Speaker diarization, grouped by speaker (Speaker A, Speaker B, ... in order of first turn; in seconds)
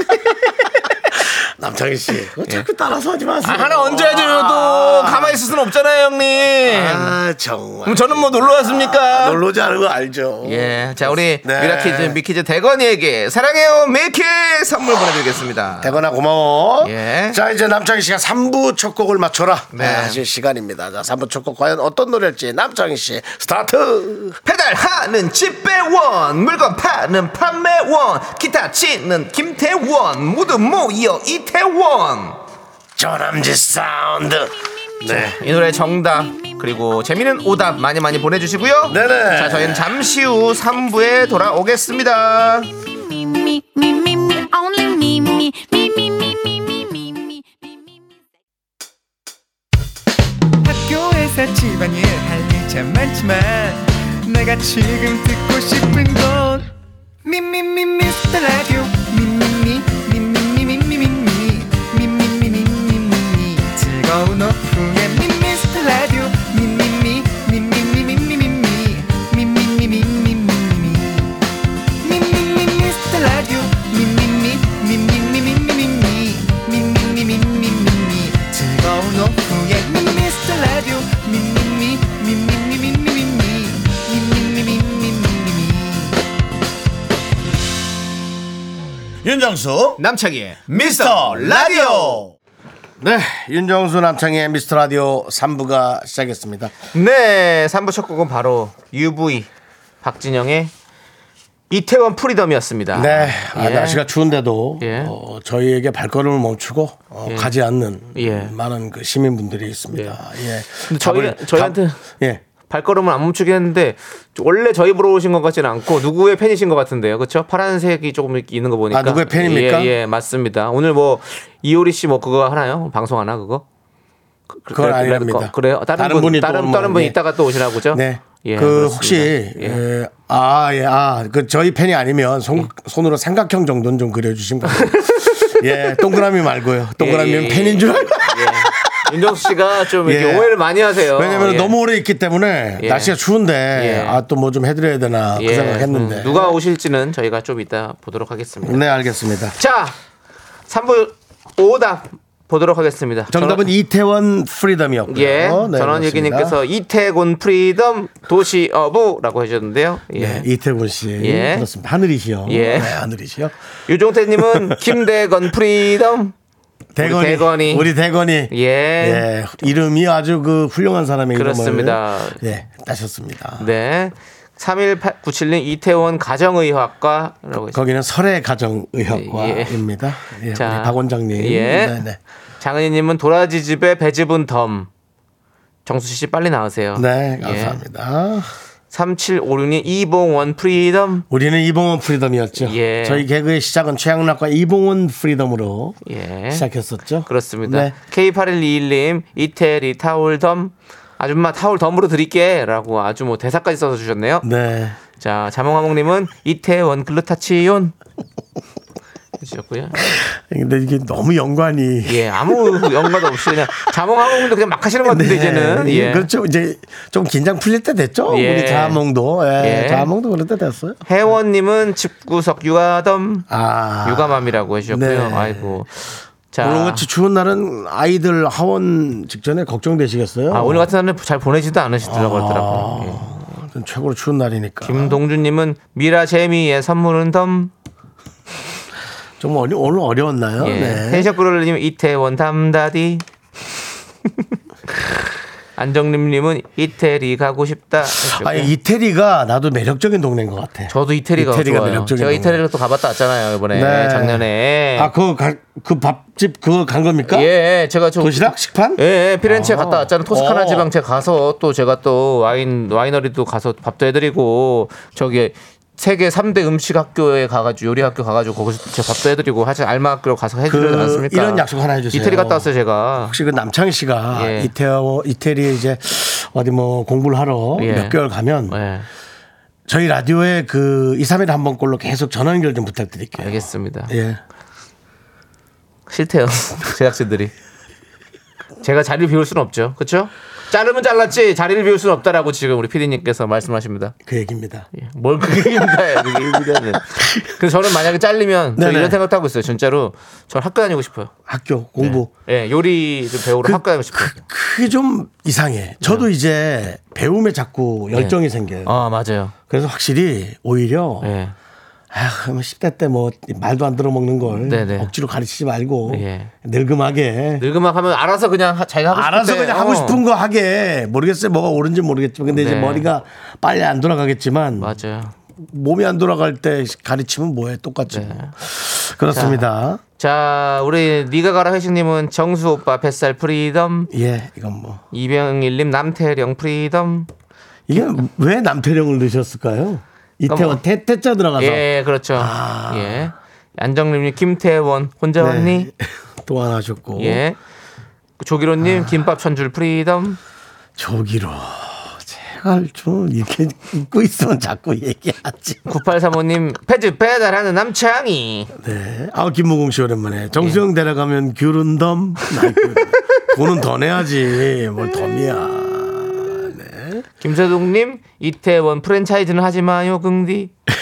Speaker A: 1.1-5.4, 6.6-12.2, 15.8-24.4, 33.0-35.4, 38.9-40.0, 89.2-90.0, 90.7-92.3, 93.0-96.7, 102.9-112.4, 118.9-119.9, 124.7-127.2, 127.9-146.6, 148.6-149.6, 153.3-156.6, 160.1-163.5, 164.3-164.9, 166.9-173.7, 177.5-182.2, 186.9-188.5, 191.3-196.0, 196.5-197.9, 204.4-205.0, 210.0-213.8, 215.0-221.0, 223.5-225.8, 226.6-230.9, 232.0-235.2, 239.4-241.3, 248.1-252.6, 253.7-254.4, 254.9-257.5, 258.2-260.9, 270.7-272.7, 273.3-278.8, 279.9-284.4, 294.2-294.9, 295.4-297.5, 298.8-299.2, 301.5-302.3, 303.6-308.9, 309.7-311.3, 312.1-317.6, 319.1-324.9, 325.6-330.0, 334.1-335.0, 337.9-343.3, 345.4-347.4, 348.8-349.1, 351.0-355.9, 358.7-367.2
Speaker B: 3.4-7.2, 7.8-9.4, 10.4-16.0, 16.8-17.4, 19.7-20.2, 24.4-32.4, 35.0-42.7, 90.0-92.3, 96.9-99.5, 100.0-100.7, 101.7-104.0, 104.8-105.1, 107.2-107.5, 108.1-108.5, 109.9-110.2, 110.9-112.0, 112.7-123.6, 124.5-129.8, 134.7-135.9, 137.0-141.7, 142.8-143.2, 143.7-144.2, 145.3-148.8, 149.6-149.9, 150.7-153.7, 155.1-160.5, 161.2-161.7, 162.4-163.0, 163.9-166.3, 167.0-167.9, 168.5-169.3, 171.3-172.4, 173.6-177.8, 179.1-179.8, 180.5-182.0, 182.6-184.9, 185.8-187.8, 188.9-191.2, 192.6-193.2, 196.1-196.7, 197.2-204.4, 205.2-207.9, 209.4-210.2, 212.1-216.3, 218.3-219.0, 219.6-220.1, 221.1-223.4, 224.0-227.1, 230.5-233.3, 234.8-237.7, 240.6-243.2, 245.8-248.7, 250.9-255.1, 257.3-273.4, 274.3-274.7, 277.8-279.1, 283.4-284.1, 286.1-287.5, 288.8-294.1, 294.9-301.3, 302.0-304.4, 308.9-309.5, 311.2-311.5, 314.6-315.1, 316.1-316.5, 317.6-320.2, 322.5-323.1, 324.8-325.3, 328.1-328.5, 329.3-329.6, 330.2-334.1, 335.1-337.3, 340.5-340.8, 341.6-345.9, 347.2-347.6, 348.4-350.4, 355.9-358.7, 367.4-370.7
Speaker C: 43.1-47.4
Speaker D: 50.6-56.7, 57.2-71.4, 72.0-86.2